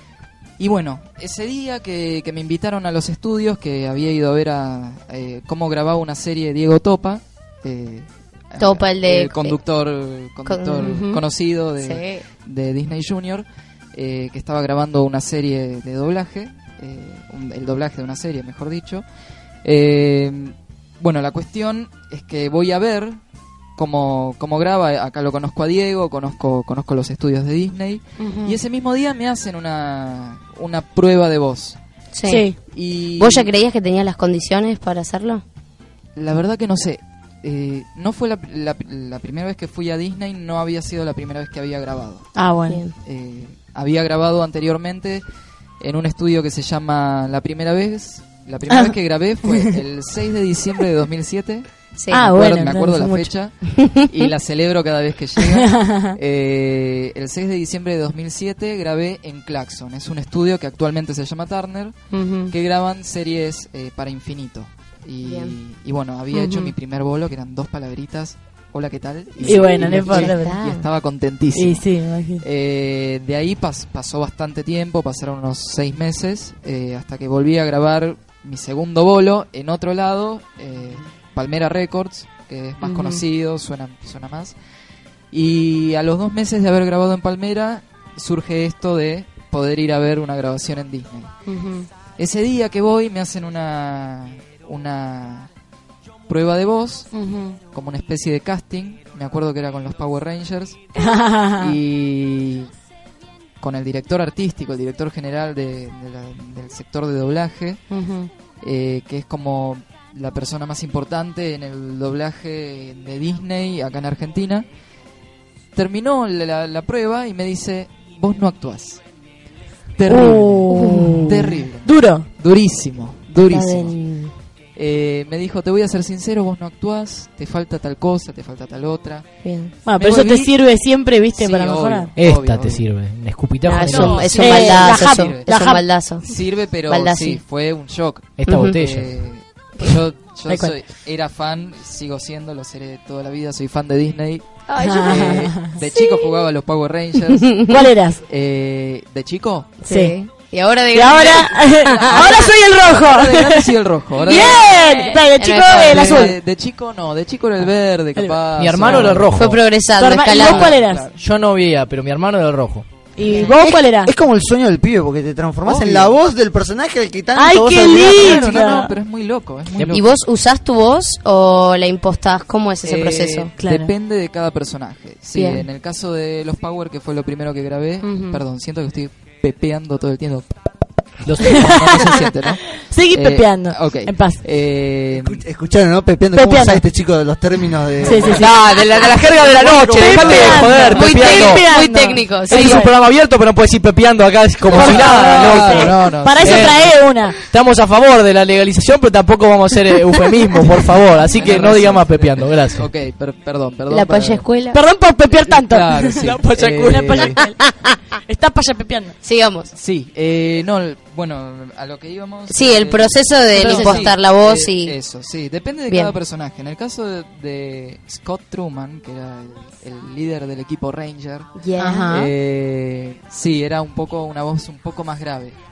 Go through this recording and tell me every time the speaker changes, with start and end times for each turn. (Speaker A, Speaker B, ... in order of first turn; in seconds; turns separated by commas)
Speaker A: 0.6-19.0, Speaker B: 8.6-9.6, Speaker B: 10.5-11.2, Speaker B: 11.8-12.2, Speaker A: 19.6-23.2, Speaker A: 23.8-31.8, Speaker C: 28.2-28.6, Speaker B: 32.1-32.5, Speaker C: 32.2-32.6, Speaker A: 32.7-33.5, Speaker B: 33.2-35.4, Speaker A: 36.2-42.4, Speaker C: 42.4-42.8, Speaker B: 42.7-42.9, Speaker A: 43.0-45.2, Speaker A: 45.8-51.7, Speaker B: 52.0-52.3, Speaker C: 52.1-53.3, Speaker A: 52.2-71.9, Speaker C: 55.6-56.1, Speaker C: 62.1-62.5, Speaker B: 62.2-62.5, Speaker B: 65.2-65.5, Speaker C: 66.3-66.7, Speaker B: 69.4-70.8, Speaker C: 69.4-70.5, Speaker C: 71.6-72.4, Speaker A: 72.4-84.5, Speaker C: 82.8-83.2, Speaker A: 85.3-91.3, Speaker C: 91.5-91.9, Speaker A: 92.2-95.5, Speaker A: 96.3-97.1, Speaker C: 97.1-97.6, Speaker A: 97.7-100.9, Speaker C: 101.0-101.8, Speaker A: 101.6-102.7, Speaker A: 103.6-107.8, Speaker C: 107.9-108.3, Speaker A: 108.6-114.7, Speaker A: 115.8-119.0, Speaker A: 120.0-123.9, Speaker C: 120.1-121.3, Speaker B: 120.7-121.6, Speaker C: 121.8-122.3, Speaker B: 123.4-124.3, Speaker A: 124.8-130.5, Speaker B: 129.4-129.7, Speaker C: 129.9-132.1, Speaker A: 131.3-132.8, Speaker D: 132.2-134.2, Speaker C: 133.6-135.8, Speaker B: 133.9-136.3, Speaker A: 133.9-135.5, Speaker A: 136.2-147.6, Speaker B: 136.9-137.4, Speaker D: 138.4-139.1, Speaker B: 138.5-138.8, Speaker B: 144.7-146.4, Speaker C: 144.8-145.7, Speaker B: 147.3-147.9, Speaker C: 147.7-148.2, Speaker A: 148.3-149.8, Speaker B: 149.8-152.3, Speaker C: 149.9-150.2, Speaker C: 150.9-153.7, Speaker A: 151.7-154.8, Speaker B: 154.2-156.3, Speaker C: 154.3-156.3, Speaker A: 155.7-159.4, Speaker C: 158.2-159.2, Speaker D: 158.6-159.6, Speaker B: 159.3-160.8, Speaker C: 160.0-161.0, Speaker A: 160.3-161.2, Speaker D: 161.2-162.9, Speaker C: 163.2-164.1, Speaker B: 163.2-163.6, Speaker E: 163.5-168.9, Speaker A: 165.7-166.2, Speaker C: 167.3-168.9, Speaker A: 167.9-170.2, Speaker B: 169.9-173.5, Speaker A: 172.8-180.7, Speaker C: 173.6-173.9, Speaker B: 175.4-175.7, Speaker C: 178.0-178.4, Speaker D: 181.2-181.8, Speaker A: 181.4-185.4, Speaker C: 181.5-182.0, Speaker C: 182.9-184.4, Speaker E: 185.1-191.0, Speaker C: 186.3-186.8, Speaker C: 188.0-188.6, Speaker D: 188.3-191.7, Speaker C: 189.9-192.9, Speaker B: 190.9-192.8, Speaker D: 192.5-196.9, Speaker A: 194.7-196.9, Speaker C: 194.7-197.4, Speaker D: 197.5-202.9, Speaker A: 201.3-204.4, Speaker B: 203.9-204.8, Speaker C: 204.7-207.6, Speaker A: 205.5-207.4, Speaker C: 208.3-209.2, Speaker B: 209.2-209.7, Speaker A: 209.7-221.6, Speaker B: 212.5-215.0, Speaker C: 213.5-214.1, Speaker B: 221.6-222.2, Speaker C: 221.8-222.3, Speaker A: 222.1-225.6